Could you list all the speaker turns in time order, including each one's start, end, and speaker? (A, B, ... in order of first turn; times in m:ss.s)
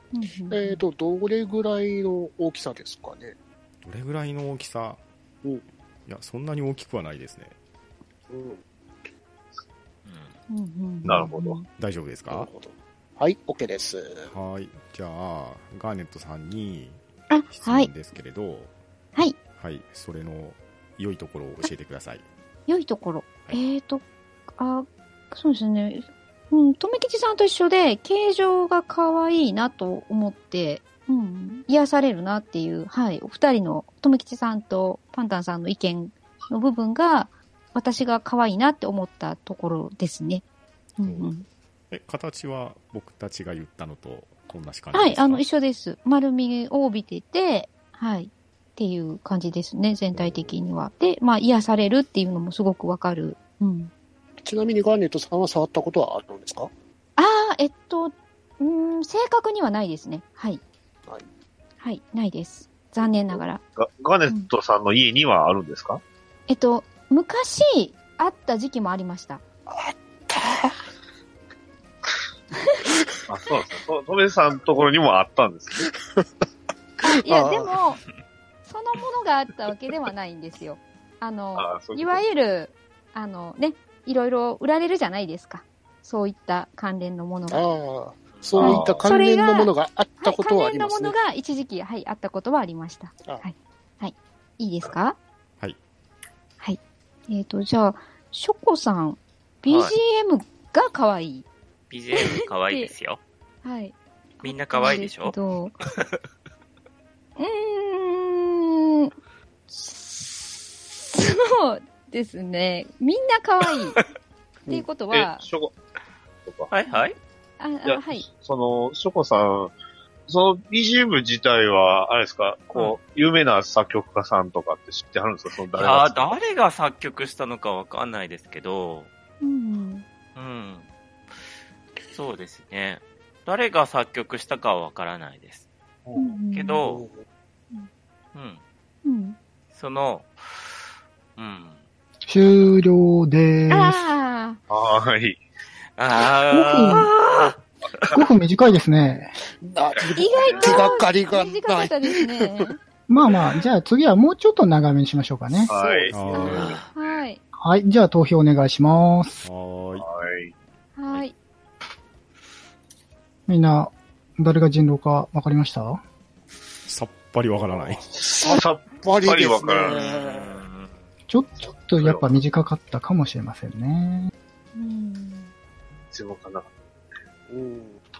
0:00.1-0:00.8 A
0:00.5-0:03.4 B
0:03.8-0:05.0 C
0:06.1-0:07.6 C
0:08.3-0:08.6 B
0:10.0-0:10.4 D
0:10.5-0:11.7 A
0:11.0-0:11.6 E
0:11.7-0:12.5 C
0:12.3-0:14.3 B
0:14.3-0:18.7 C
0:17.3-0:17.9 A
0:19.4-0:22.2 C
0:22.7-0:24.0 A
0:24.6-0:40.4 A
0:41.0-0:41.5 A
0:41.9-0:45.4 C
0:44.9-0:53.9 A
0:54.4-0:56.7 B
0:57.2-1:00.6 A
1:01.8-1:03.6 A
1:03.8-1:06.0 E
1:06.5-1:09.4 A
1:09.7-1:10.8 B
1:13.3-1:15.9 E
1:15.8-1:16.2 B
1:17.0-1:18.0 A
1:17.1-1:17.7 B
1:18.7-1:27.7 A
1:21.6-1:22.2 E
1:27.5-1:31.2 B
1:28.3-1:28.8 D
1:28.6-1:29.1 E
1:28.6-1:35.2 A
1:36.6-1:41.5 A
1:39.7-1:40.0 D
1:41.9-1:43.2 D
1:42.2-1:42.9 A
1:43.6-1:45.8 A
1:44.4-1:46.2 D
1:47.4-1:49.1 A
1:49.7-1:54.0 A
1:54.7-1:55.5 A
1:55.1-1:55.7 E
1:56.5-1:56.7 E
1:56.7-1:57.2 D
1:57.6-1:58.3 A
1:57.8-1:59.7 E
2:00.3-2:06.3 E
2:05.8-2:09.1 D
2:09.4-2:10.0 A
2:10.4-2:10.9 D
2:12.1-2:15.6 D
2:16.1-2:16.4 E
2:16.2-2:16.8 A
2:16.5-2:17.0 D
2:16.8-2:17.2 B
2:18.3-2:18.6 D
2:19.0-2:19.4 A
2:19.7-2:20.7 D
2:21.4-2:21.8 D
2:22.3-2:24.1 F
2:23.7-2:24.6 A
2:24.7-2:25.4 E
2:26.0-2:28.1 D
2:26.5-2:27.1 F
2:28.1-2:29.3 F
2:29.6-2:32.4 B
2:29.9-2:30.9 E
2:30.2-2:32.8 A
2:33.1-2:35.7 F
2:35.7-2:36.8 E
2:35.7-2:36.7 B
2:36.1-2:36.8 C
2:36.4-2:36.9 D
2:36.4-2:37.4 A
2:37.6-2:39.4 F
2:39.4-2:40.1 C
2:40.0-2:40.5 E
2:41.0-2:41.4 A
2:43.5-2:46.0 F
2:46.9-2:48.1 C
2:48.1-2:50.1 E
2:48.2-2:50.6 B
2:49.9-2:51.1 D
2:51.3-2:54.3 F
2:51.9-2:52.4 E
2:54.8-2:55.5 A
2:56.1-2:56.7 E
2:57.5-2:58.0 B